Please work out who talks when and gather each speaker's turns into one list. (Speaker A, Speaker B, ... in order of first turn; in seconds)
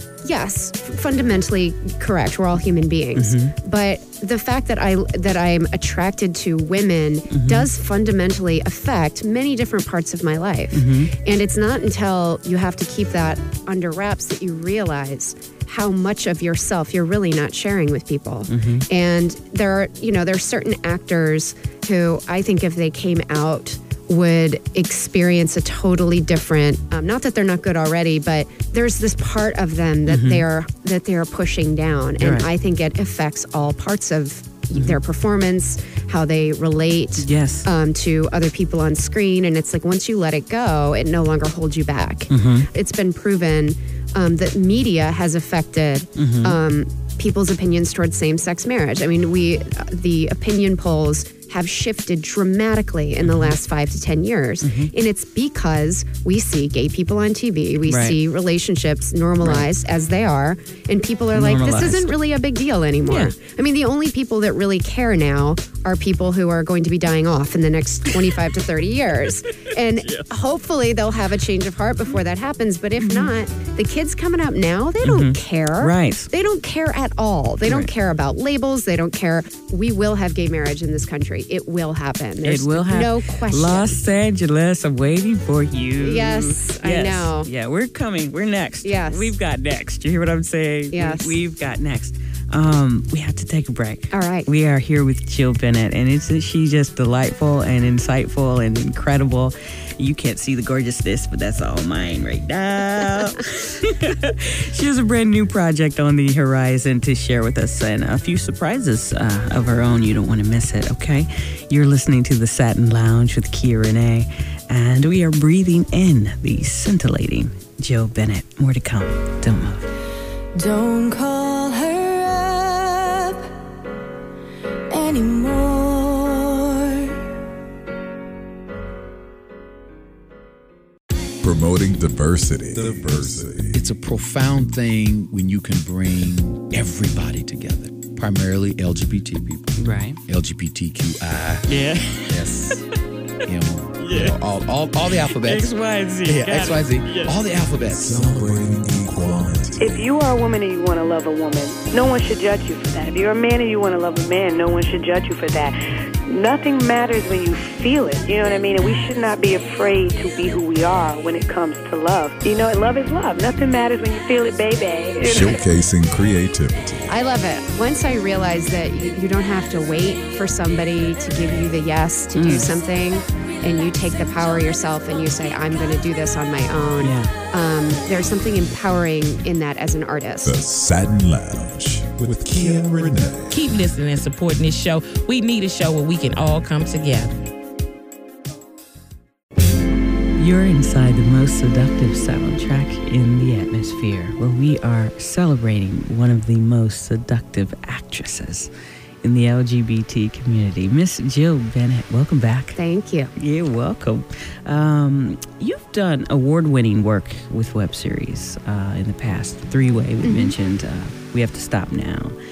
Speaker A: 0.2-84.0, 86.0-87.5, 88.8-89.3, 90.9-91.4, 94.1-94.5, 167.1-180.6, 202.8-203.3, 210.2-210.5
Speaker B: 3.2-3.5, 7.3-7.7, 10.7-11.1, 18.5-18.9, 30.1-30.4, 32.2-32.5, 37.2-37.7, 42.3-42.7, 46.2-46.6, 53.2-53.5, 54.6-54.9, 57.9-58.2, 59.4-59.7, 61.3-62.1, 73.0-73.3, 75.0-76.3, 82.4-119.9, 139.8-140.2, 141.7-142.7, 144.0-144.3, 145.3-147.3, 172.3-172.7, 177.0-177.3, 190.4-198.7, 199.2-202.8, 203.4-212.3
Speaker C: 120.6-123.4, 124.9-127.1, 183.5-187.4
Speaker D: 131.4-133.8, 147.9-150.1, 165.2-167.1, 180.4-183.8
Speaker E: 133.7-142.8, 143.4-148.4
Speaker F: 149.8-165.6